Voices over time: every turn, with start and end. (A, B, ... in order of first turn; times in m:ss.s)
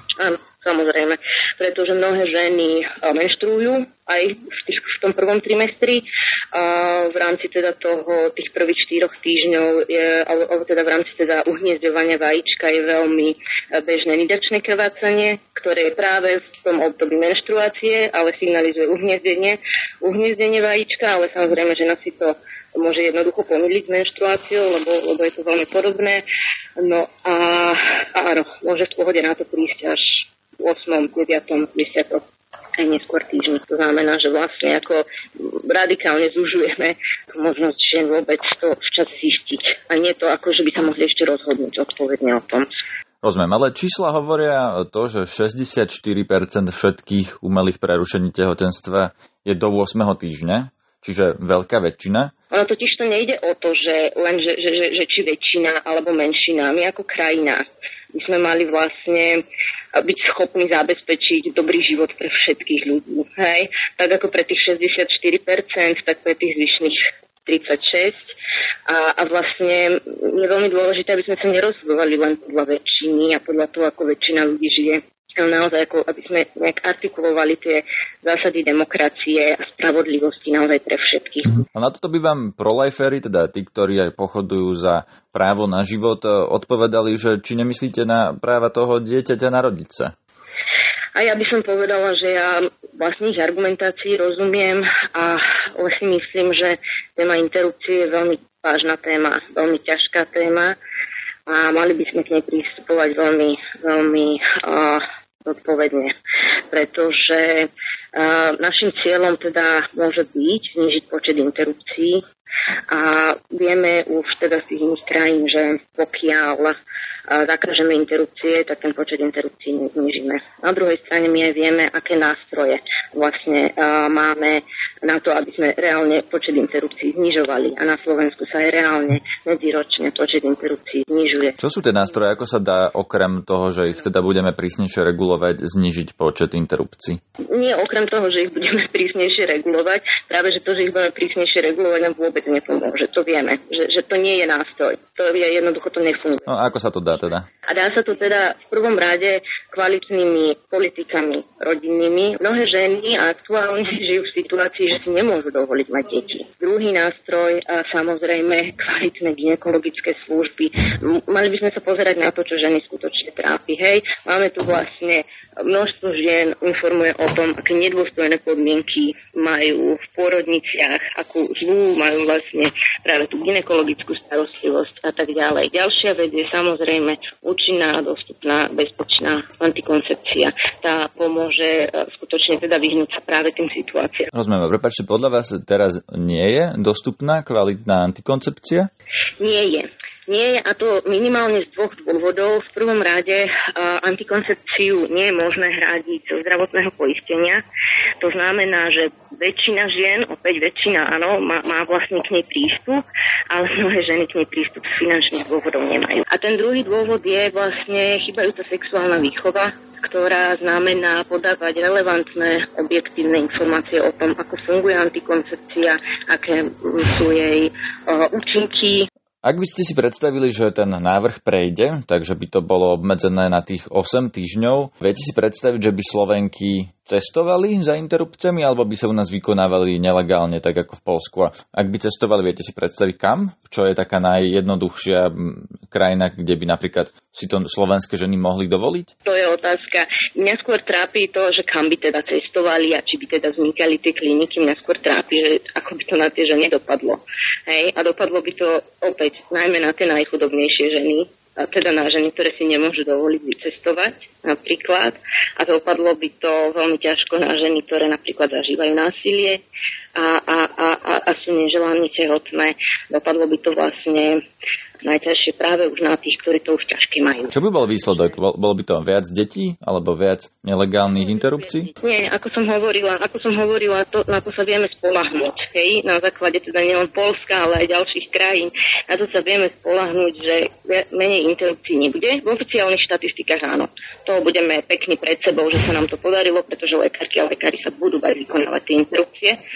0:00.2-0:26.2 A
0:26.8-0:32.2 A
0:32.8-0:42.7 A
0:43.2-0:52.3 B
0:52.5-0:59.4 A
1:00.0-1:08.3 A
1:08.9-1:21.6 A
1:21.7-1:30.1 B
1:31.2-1:40.8 A
1:41.5-1:46.1 A
1:46.7-1:52.2 A
1:52.9-1:56.8 A
1:57.3-2:11.6 A
2:11.6-2:17.2 B
2:17.5-2:26.5 A
2:26.5-2:27.5 B
2:27.7-3:04.3 A
3:04.3-3:08.9 B
3:09.4-3:17.6 A
3:18.2-3:39.1 A
3:39.4-3:59.1 B
3:59.2-4:19.6 A
4:20.2-4:24.4 A
4:25.0-4:27.5 A
4:27.5-4:31.9 B
4:32.0-4:49.6 A